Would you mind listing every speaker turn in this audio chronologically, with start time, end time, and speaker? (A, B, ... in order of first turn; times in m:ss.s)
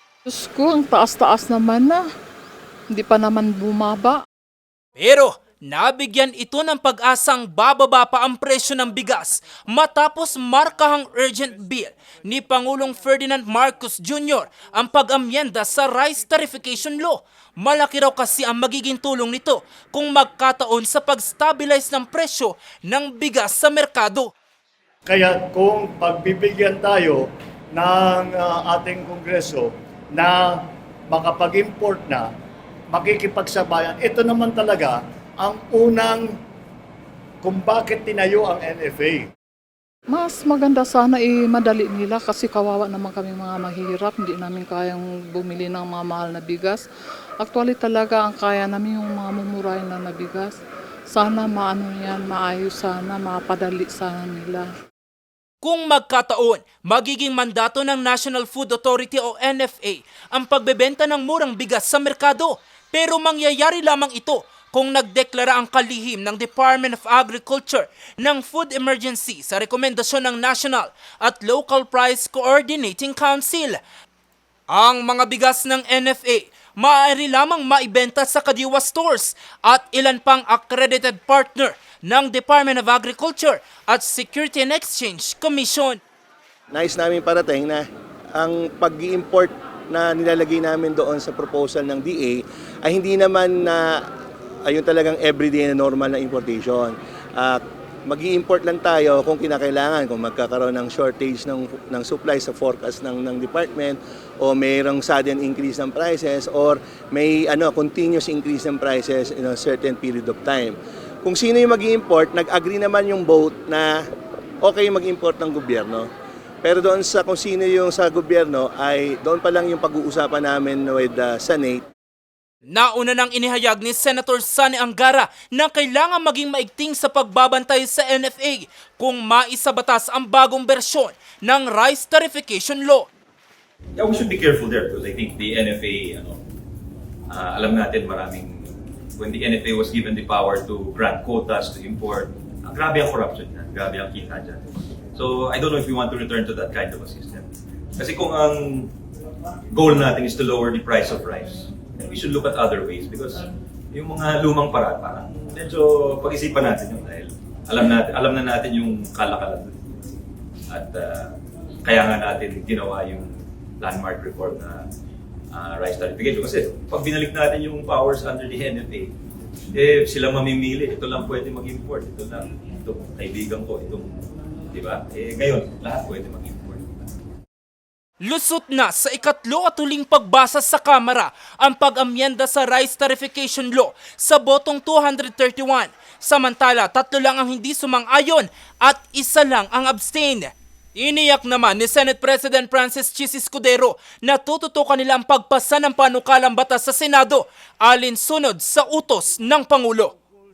0:00.3-0:02.0 A
0:02.9-0:04.2 A
0:05.0-0:24.3 B
0:25.1-0:30.5 C
0:31.1-0:32.3 C
0:32.9-0:36.3 C
0:37.4-0:39.3 C
0:40.1-0:46.8 A
0:47.4-0:50.6 A
0:51.1-0:54.7 A
0:55.6-1:13.8 B
1:14.7-1:26.0 B
1:26.7-1:27.8 D
1:28.4-1:33.8 D
1:34.7-1:53.9 D
1:54.6-1:56.1 D
1:56.6-2:01.8 D
2:02.7-2:13.1 B
2:14.0-2:16.4 E
2:17.3-2:18.6 E
2:19.2-2:24.6 E
2:25.2-2:27.5 E
2:28.0-2:28.9 E
2:29.7-2:39.7 E
2:40.7-2:44.8 E
2:45.5-2:49.1 E
2:49.7-2:54.2 E
2:54.7-2:56.8 E
2:58.2-3:20.2 B